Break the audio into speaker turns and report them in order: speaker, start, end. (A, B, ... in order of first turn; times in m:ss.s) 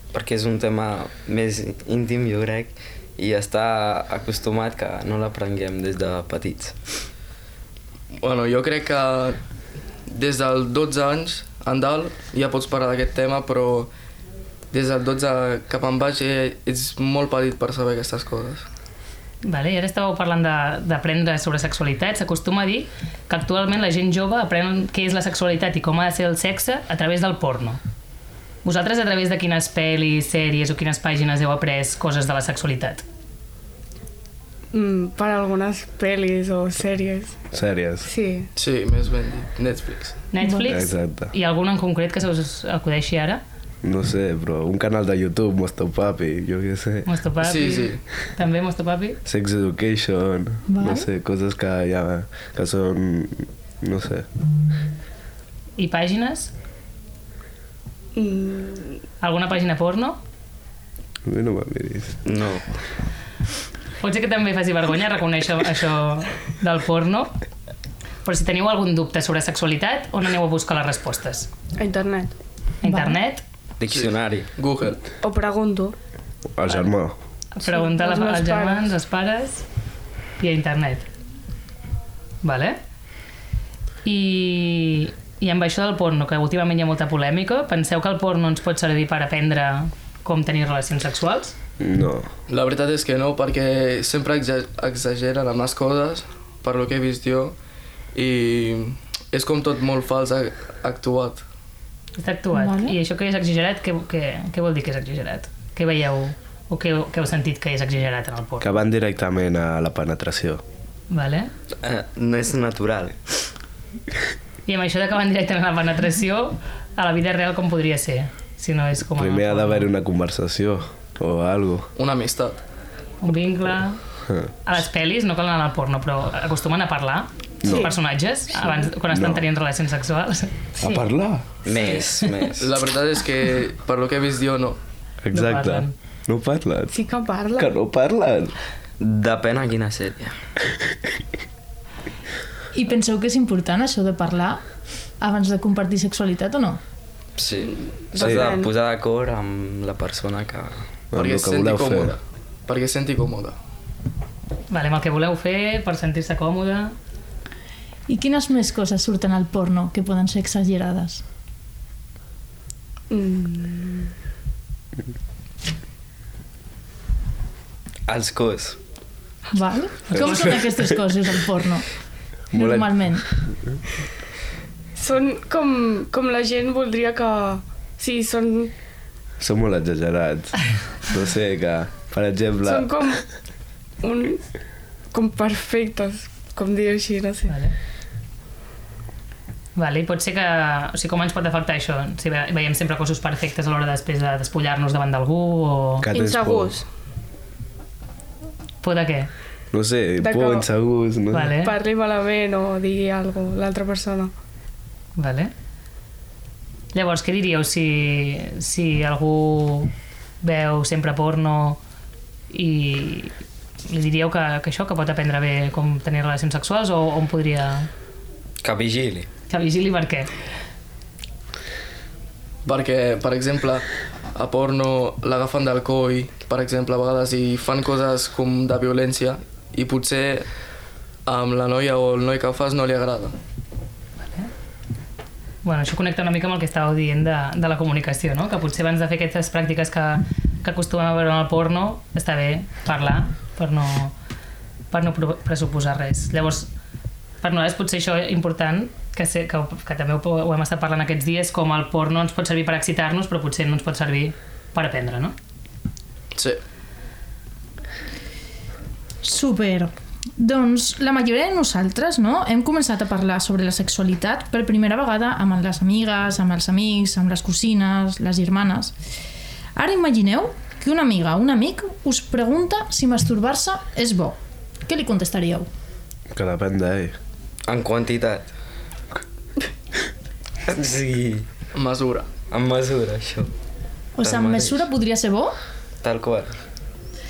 0:00.1-0:06.8 A
0:08.2-0:09.4 B
0:10.1-0:13.9 B
0:14.7-0:18.6 B
0:19.4-0:27.8 C
0:28.6-0:33.0 C
0:34.7-0:37.4 D
0:37.5-0:38.1 E
0:38.0-0:38.5 D
0:38.6-0:40.2 B
0:40.3-0:43.4 C
0:40.4-0:40.7 F
0:40.6-0:41.3 E
0:43.8-0:47.1 E
0:47.0-0:49.2 C
0:47.4-0:48.0 B
0:49.2-0:54.3 E
0:50.7-0:51.1 F
0:55.8-0:56.5 C
0:58.2-0:59.0 D
0:59.2-1:00.2 C
1:01.2-1:02.2 E
1:02.2-1:02.6 A
1:04.0-1:07.3 C
1:08.2-1:11.5 C
1:11.8-1:12.3 D
1:12.8-1:13.4 C
1:12.8-1:13.2 F
1:13.8-1:14.5 A
1:13.9-1:15.0 B
1:15.2-1:15.9 D
1:16.6-1:17.2 E
1:17.6-1:19.7 C
1:17.6-1:18.8 D
1:20.4-1:21.0 C
1:22.4-1:22.8 C
1:24.0-1:31.5 C
1:31.8-1:32.3 E
1:32.5-1:37.5 B
1:38.2-1:41.4 B
1:42.2-1:48.7 C
1:42.5-1:43.0 F
1:48.6-1:50.6 E
1:51.1-1:51.5 C
1:51.8-1:53.2 A
1:54.7-1:59.9 C
1:59.2-2:01.9 E
2:02.0-2:02.6 B
2:03.2-2:04.0 C
2:04.6-2:10.5 C
2:07.6-2:07.9 E
2:07.6-2:07.9 D
2:09.0-2:09.5 E
2:10.8-2:11.6 E
2:11.6-2:12.6 A
2:12.6-2:14.8 B
2:15.2-2:16.9 E
2:15.3-2:15.9 C
2:16.9-2:17.7 D
2:17.6-2:18.5 E
2:19.0-2:20.4 A
2:22.7-2:24.6 F
2:25.2-2:26.8 F
2:27.4-2:30.8 A
2:28.1-2:28.7 D
2:28.2-2:28.5 E
2:31.1-2:32.2 E
2:31.2-2:33.6 B
2:34.7-2:36.9 C
2:38.1-2:41.2 F
2:43.1-2:44.1 D
2:48.1-2:48.8 A
2:49.5-2:51.9 F
2:50.1-2:50.5 C
2:50.2-2:50.5 E
2:52.5-2:53.3 F
2:52.5-2:52.9 E
2:55.0-2:58.7 D
2:59.4-3:02.9 E
3:02.6-3:03.2 D
3:04.0-3:04.4 D
3:05.1-3:07.5 D
3:07.5-3:07.7 C
3:09.8-3:16.1 C
3:16.0-3:16.8 E
3:16.1-3:16.8 D
3:18.8-3:19.3 C
3:19.7-3:21.5 E
3:20.2-3:20.7 D
3:21.3-3:21.7 C
3:21.5-3:24.3 D
3:25.2-3:25.5 C
3:26.9-3:31.8 C
3:32.5-3:33.3 C
3:33.9-3:37.9 C
3:38.6-3:39.3 A
3:39.5-3:40.3 C
3:42.7-3:50.5 B
3:51.2-3:53.4 B
3:54.2-3:54.5 C
3:55.6-4:04.1 C
4:04.9-4:06.7 C
4:07.4-4:15.3 C
4:16.4-4:16.6 B
4:19.2-4:28.9 F
4:29.8-4:35.7 F
4:36.3-4:37.2 E
4:37.6-4:38.5 A
4:40.6-4:41.5 A
4:41.8-4:42.3 B
4:42.5-4:43.5 A
4:44.2-4:45.6 F
4:44.2-4:44.8 A
4:46.0-4:46.5 A